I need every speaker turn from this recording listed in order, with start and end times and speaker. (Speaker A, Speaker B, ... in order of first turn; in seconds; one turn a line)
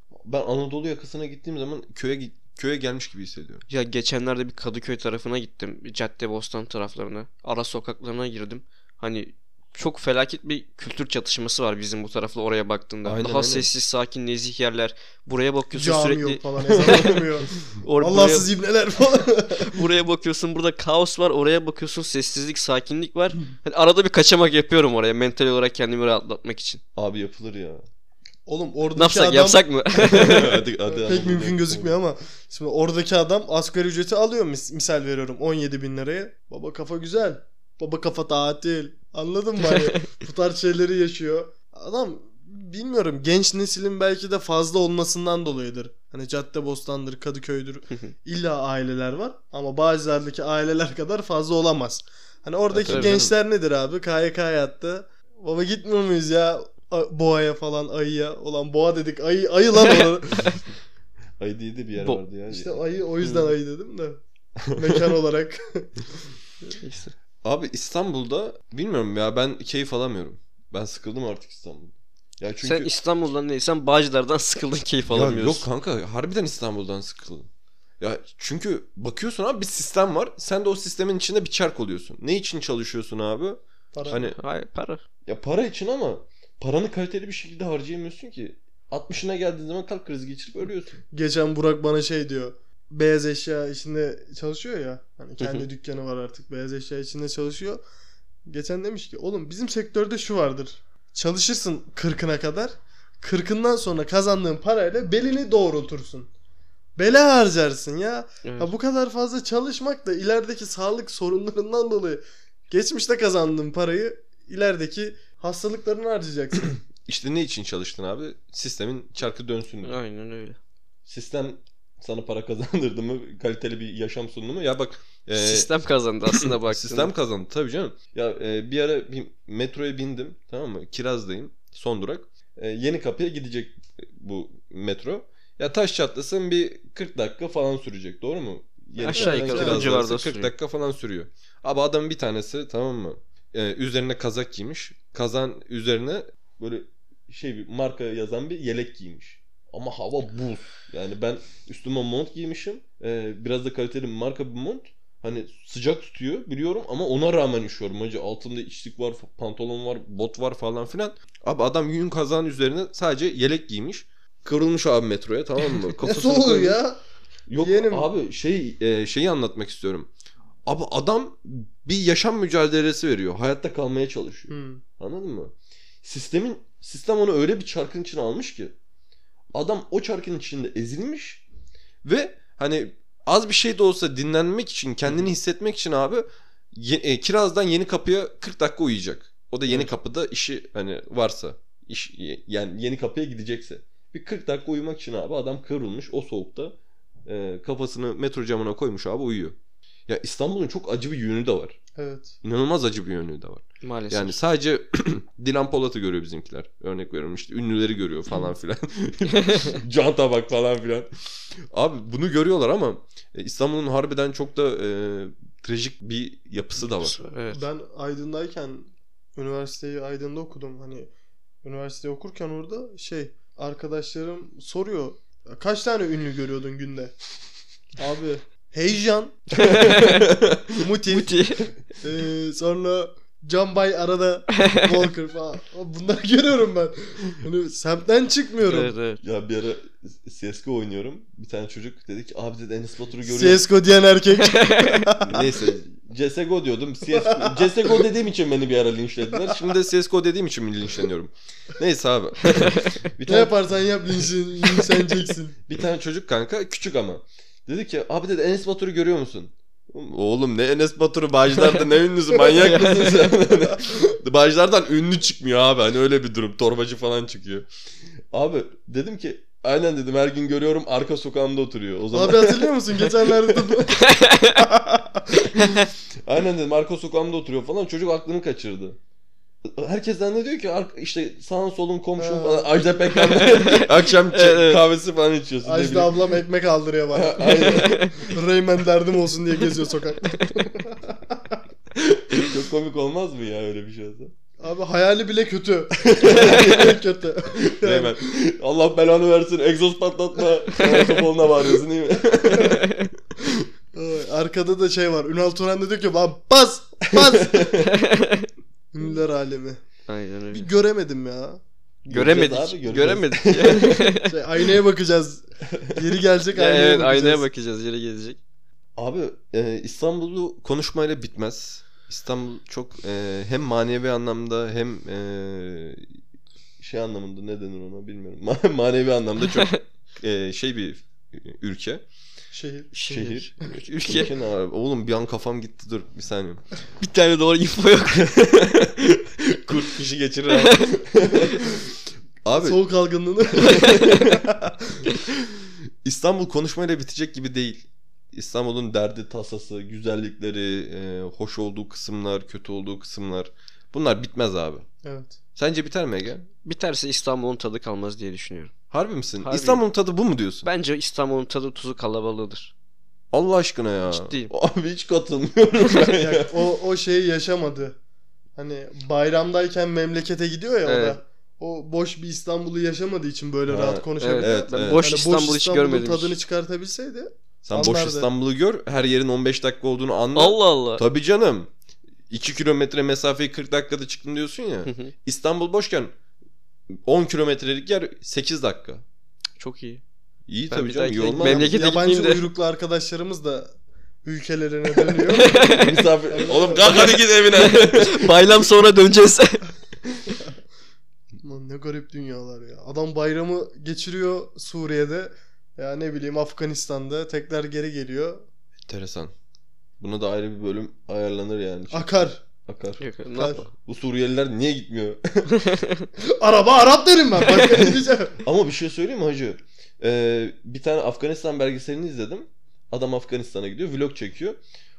Speaker A: 0.2-3.6
Speaker B: 3.7-18.5
Speaker A: 13.0-13.7
Speaker C: 15.7-19.8
Speaker A: 16.8-17.1
Speaker B: 19.6-26.8
Speaker A: 26.9-27.8
Speaker C: 28.5-60.6
Speaker B: 28.9-30.6
Speaker A: 30.0-31.9
Speaker B: 39.6-40.0
Speaker A: 52.7-53.3
Speaker B: 52.8-53.2
Speaker B: 59.8-60.6
Speaker A: 61.4-62.8
Speaker B: 62.0-62.2
Speaker C: 62.5-64.2
Speaker B: 63.2-63.5
Speaker A: 64.7-65.0
Speaker C: 64.7-65.9
Speaker B: 66.8-67.1
Speaker A: 67.4-72.9
Speaker B: 72.6-75.7
Speaker A: 75.1-77.5
Speaker A: 78.0-84.4
Speaker C: 83.9-84.2
Speaker B: 84.1-85.0
Speaker A: 85.3-91.0
Speaker C: 91.1-97.8
Speaker B: 95.4-95.7
Speaker C: 98.5-106.3
Speaker C: 107.0-116.8
Speaker B: 108.4-108.7
Speaker A: 117.0-120.0
Speaker B: 119.8-120.6
Speaker A: 121.0-125.7
Speaker B: 125.3-127.1
Speaker A: 126.3-166.8
Speaker B: 139.0-140.5
Speaker C: 139.1-140.0
Speaker C: 165.9-167.0
Speaker A: 167.5-170.1
Speaker C: 167.6-168.1
Speaker A: 170.7-178.8
Speaker C: 174.5-174.8
Speaker A: 179.5-181.4
Speaker A: 182.0-199.6
Speaker A: 200.1-201.8
Speaker C: 201.9-202.3
Speaker A: 202.4-211.1
Speaker B: 203.8-204.4
Speaker B: 209.3-209.8
Speaker A: 211.7-217.2
Speaker B: 216.8-217.6
Speaker C: 217.5-221.1
Speaker C: 221.6-227.1
Speaker C: 228.0-229.8
Speaker A: 229.6-230.8
Speaker B: 229.6-230.3
Speaker C: 230.8-231.4
Speaker B: 231.1-231.7
Speaker C: 232.0-238.9
Speaker B: 238.7-239.2
Speaker A: 239.2-243.6
Speaker C: 243.2-245.4
Speaker B: 244.4-245.1
Speaker A: 245.2-253.6
Speaker C: 247.2-247.5
Speaker C: 253.3-255.6
Speaker A: 255.7-267.7
Speaker B: 262.5-263.3
Speaker C: 263.5-264.0
Speaker A: 268.3-273.7
Speaker C: 272.1-275.5
Speaker B: 274.0-274.6
Speaker A: 275.3-279.0
Speaker B: 275.6-275.9
Speaker A: 279.6-286.1
Speaker C: 282.2-282.7
Speaker B: 283.1-284.8
Speaker C: 285.6-291.6
Speaker A: 287.1-288.2
Speaker B: 287.4-288.1
Speaker A: 291.9-294.3
Speaker C: 294.6-298.2
Speaker A: 296.0-297.0
Speaker A: 297.5-303.7
Speaker B: 300.8-301.2
Speaker B: 302.6-303.1
Speaker C: 303.9-307.8
Speaker A: 307.1-307.9
Speaker B: 307.8-308.5
Speaker C: 308.9-309.8
Speaker B: 310.1-310.7
Speaker C: 310.5-311.6
Speaker B: 312.1-314.4
Speaker A: 312.1-314.2
Speaker C: 314.2-317.4
Speaker B: 316.5-318.4
Speaker A: 318.9-326.1
Speaker A: 326.8-332.0
Speaker B: 329.5-329.8
Speaker C: 332.5-333.5
Speaker A: 332.9-336.6
Speaker B: 333.1-334.3
Speaker B: 337.0-338.3
Speaker A: 338.1-342.8
Speaker B: 340.5-340.9
Speaker C: 342.5-345.0
Speaker A: 343.5-344.4
Speaker B: 343.6-344.1
Speaker A: 345.2-354.8
Speaker C: 355.0-355.4
Speaker A: 355.6-356.5
Speaker B: 356.6-358.7
Speaker A: 358.9-360.7
Speaker B: 359.4-359.8
Speaker B: 360.6-362.7
Speaker A: 363.3-366.6
Speaker B: 364.1-364.5
Speaker C: 366.1-368.0
Speaker C: 368.6-378.3
Speaker B: 370.9-371.2
Speaker A: 373.7-375.0
Speaker B: 374.2-376.4
Speaker A: 377.6-381.7
Speaker B: 380.4-381.0
Speaker A: 382.3-386.1
Speaker B: 384.9-385.1
Speaker A: 386.9-389.0
Speaker B: 389.6-390.0
Speaker A: 390.5-391.7
Speaker B: 390.7-392.5
Speaker C: 391.4-393.7
Speaker C: 394.2-397.1
Speaker B: 395.0-396.1
Speaker A: 395.7-398.6
Speaker B: 396.9-399.6
Speaker C: 401.4-408.4
Speaker A: 408.9-409.3
Speaker A: 410.0-415.5
Speaker C: 411.9-412.4
Speaker B: 413.0-413.7
Speaker C: 413.4-413.6
Speaker B: 415.5-416.1
Speaker C: 416.2-418.4
Speaker A: 417.6-424.6